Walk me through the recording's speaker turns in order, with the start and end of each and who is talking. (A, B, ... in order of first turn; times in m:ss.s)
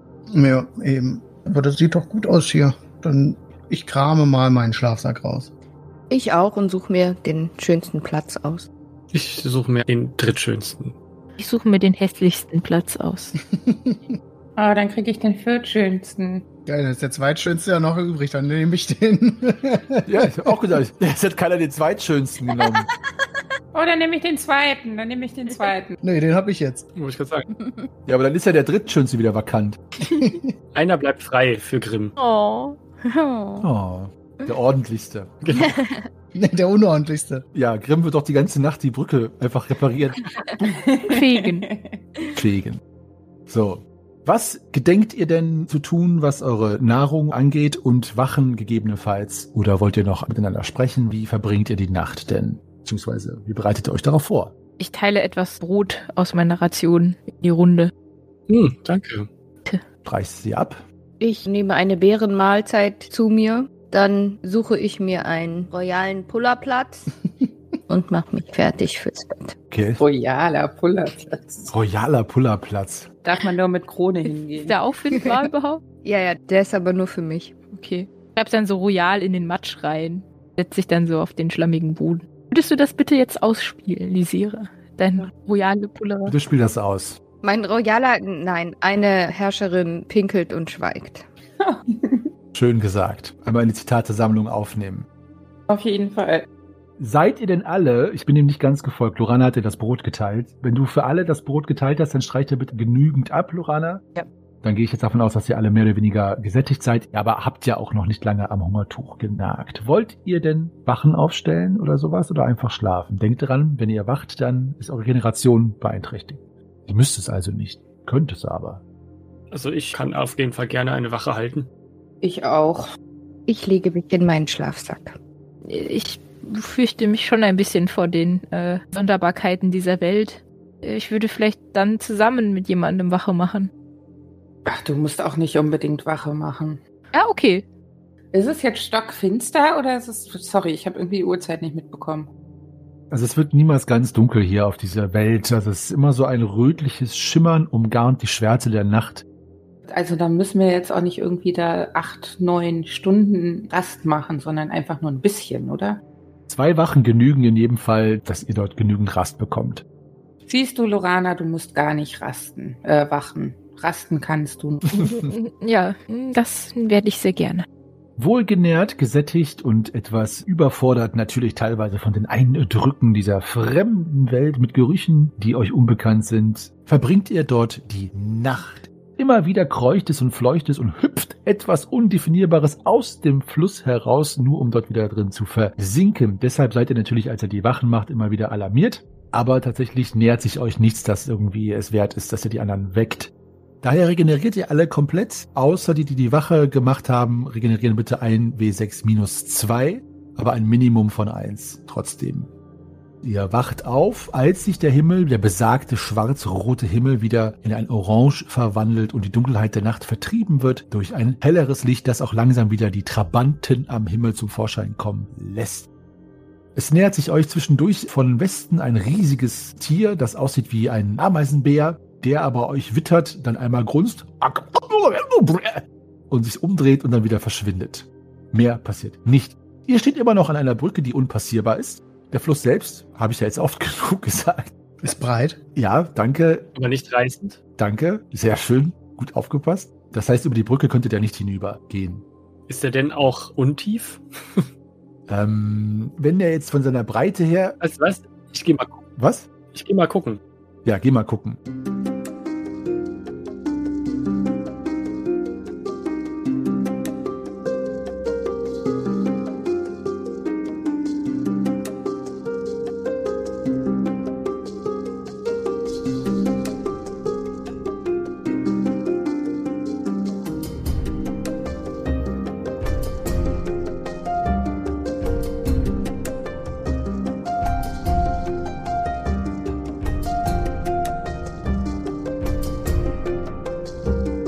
0:00.3-0:05.5 A
0:06.1-0:08.7 B
0:09.1-0:10.9 C
0:11.4-0:13.3 D
0:13.6-0:14.2 A
0:14.6-0:16.4 E
0:16.6-0:20.6 A
0:20.0-0:22.9 F
0:23.7-0:26.0 E
0:26.0-0:26.8 A
0:27.0-0:27.5 C
0:28.0-0:29.8 F
0:30.1-0:30.5 A
0:30.7-0:32.1 C
0:32.2-0:32.8 D
0:33.1-0:33.6 B
0:33.6-0:35.4 F
0:35.4-0:35.7 C
0:36.3-0:37.4 A
0:37.5-0:40.2 F
0:40.6-0:42.0 E
0:41.1-0:41.7 D
0:42.3-0:42.8 F
0:43.5-0:54.5 F
0:54.8-0:57.9 D
0:58.5-0:59.3 C
1:00.0-1:00.8 F
1:01.2-1:07.1 B
1:07.9-1:09.5 B
1:09.7-1:10.0 F
1:10.0-1:11.7 E
1:11.7-1:13.1 F
1:13.2-1:14.8 E
1:14.3-1:15.8 D
1:16.0-1:17.5 B
1:17.7-1:26.3 D
1:26.2-1:27.2 F
1:27.4-1:31.2 B
1:31.6-1:32.3 E
1:32.5-1:35.1 F
1:35.7-1:36.4 E
1:37.0-1:44.0 F
1:44.6-1:58.8 F
1:59.5-2:01.7 C
2:02.2-2:02.9 E
2:03.5-2:05.2 B
2:05.6-2:13.7 D
2:14.6-2:16.8 E
2:17.1-2:17.6 D
2:18.3-2:22.3 E
2:23.1-2:29.2 F
2:29.9-2:36.0 E
2:36.5-2:39.8 F
2:40.4-2:45.0 E
2:44.9-2:47.6 D
2:48.2-3:22.5 F
3:23.2-3:35.9 F
3:36.7-3:54.7 F
3:55.0-3:55.6 A
3:55.7-3:56.6 F
3:56.7-3:57.6 C
3:57.8-4:02.2 F
4:02.7-4:04.6 C
4:05.3-4:07.8 F
4:07.8-4:09.0 C
4:09.2-4:09.5 F
4:09.7-4:10.4 C
4:10.8-4:11.6 F